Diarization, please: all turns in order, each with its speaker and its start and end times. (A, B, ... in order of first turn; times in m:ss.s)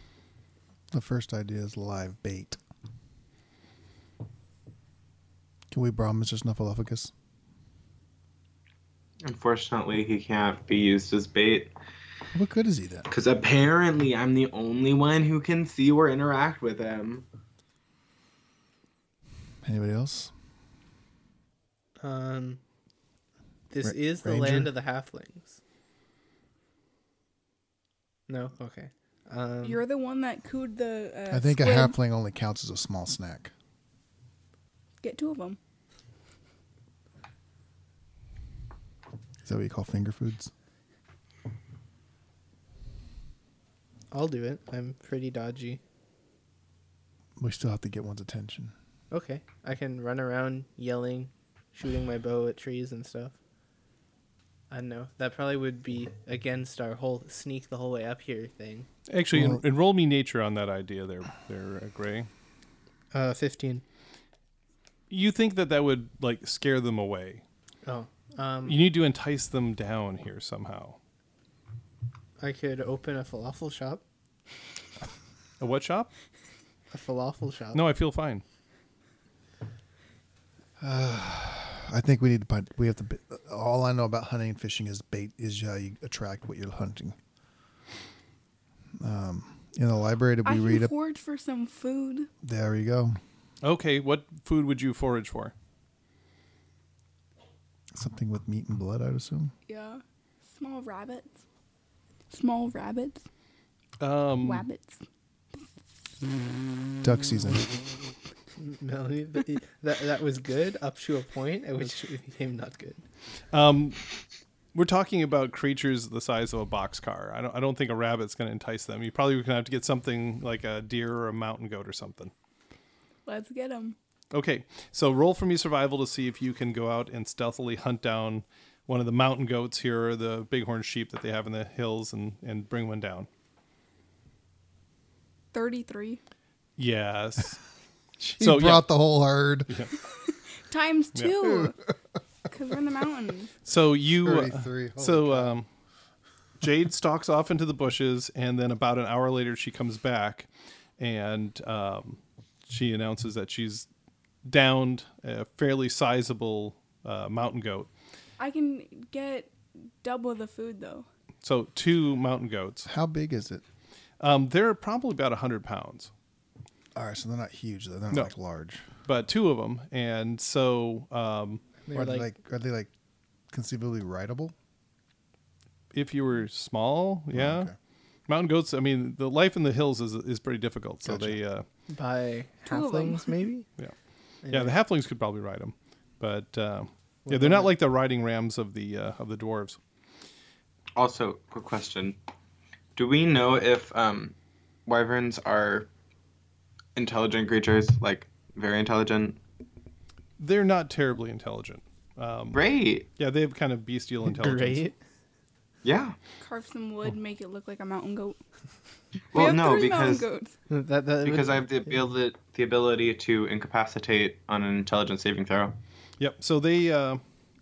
0:00.9-0:02.6 A
0:05.7-0:07.1 A
0:09.2-0:11.7 B
0:12.4-0:13.1 A
0:13.1-0:17.3 B
0:19.6-0:20.3 A
0:22.0-0:22.6 C
0:23.7-0:25.6 C
0:23.8-0:24.7 A
0:28.3-0:29.8 C
0:29.6-0:32.0 D
0:31.3-0:33.5 A
0:35.0-0:35.6 D
0:39.4-0:40.5 A
0:44.1-0:45.8 C
0:47.4-0:48.7 A
0:49.1-0:53.4 C
0:54.7-0:58.9 C
0:59.1-1:02.3 E
0:59.3-0:59.6 A
1:03.1-1:03.8 C
1:05.1-1:07.4 E
1:07.8-1:08.8 C
1:08.7-1:11.0 E
1:12.4-1:14.0 C
1:15.6-1:16.1 E
1:16.9-1:17.8 C
1:17.7-1:18.4 E
1:20.8-1:27.2 A
1:29.0-1:30.9 A
1:30.4-1:32.3 D
1:32.4-1:33.2 A
1:33.6-1:35.5 E
1:37.9-1:39.5 A
1:39.7-1:41.4 D
1:42.3-1:43.2 D
1:44.0-1:44.7 E
1:44.4-1:45.0 D
1:47.0-1:47.7 A
1:48.6-1:53.0 C
1:53.5-1:54.1 E
1:54.7-2:02.3 E
2:03.3-2:04.0 D
2:04.3-2:13.3 E
2:15.5-2:16.2 D
2:16.8-2:17.6 E
2:18.2-2:19.7 A
2:18.4-2:18.9 E
2:19.7-2:19.9 E
2:20.2-2:21.8 D
2:21.4-2:21.8 A
2:22.5-2:23.5 D
2:23.6-2:25.7 E
2:24.2-2:25.6 A
2:26.6-2:30.5 E
2:31.0-2:33.9 E
2:34.5-2:37.9 E
2:38.4-2:41.1 D
2:41.4-2:42.9 E
2:42.9-2:43.6 A
2:44.2-2:46.1 E
2:47.0-2:48.8 A
2:49.0-2:51.6 E
2:51.8-2:52.3 C
2:51.9-2:52.9 A
2:53.5-2:54.6 A
2:55.9-2:57.7 E
2:57.3-2:57.7 A
2:58.3-3:01.6 E
3:01.0-3:01.4 A
3:01.9-3:03.7 C
3:02.7-3:03.4 D
3:04.4-3:04.7 C
3:04.5-3:09.8 E
3:07.3-3:07.7 C
3:11.0-3:12.2 B
3:13.0-3:14.4 B
3:14.9-3:15.9 B
3:17.0-3:19.4 B
3:20.4-3:22.6 E
3:22.5-3:23.1 B
3:23.2-3:24.8 E
3:24.3-3:25.0 C
3:25.8-3:26.2 B
3:26.4-3:28.4 D
3:29.3-3:30.3 B
3:29.3-3:30.6 D
3:30.7-3:31.7 C
3:31.2-3:35.8 B
3:36.2-3:37.2 E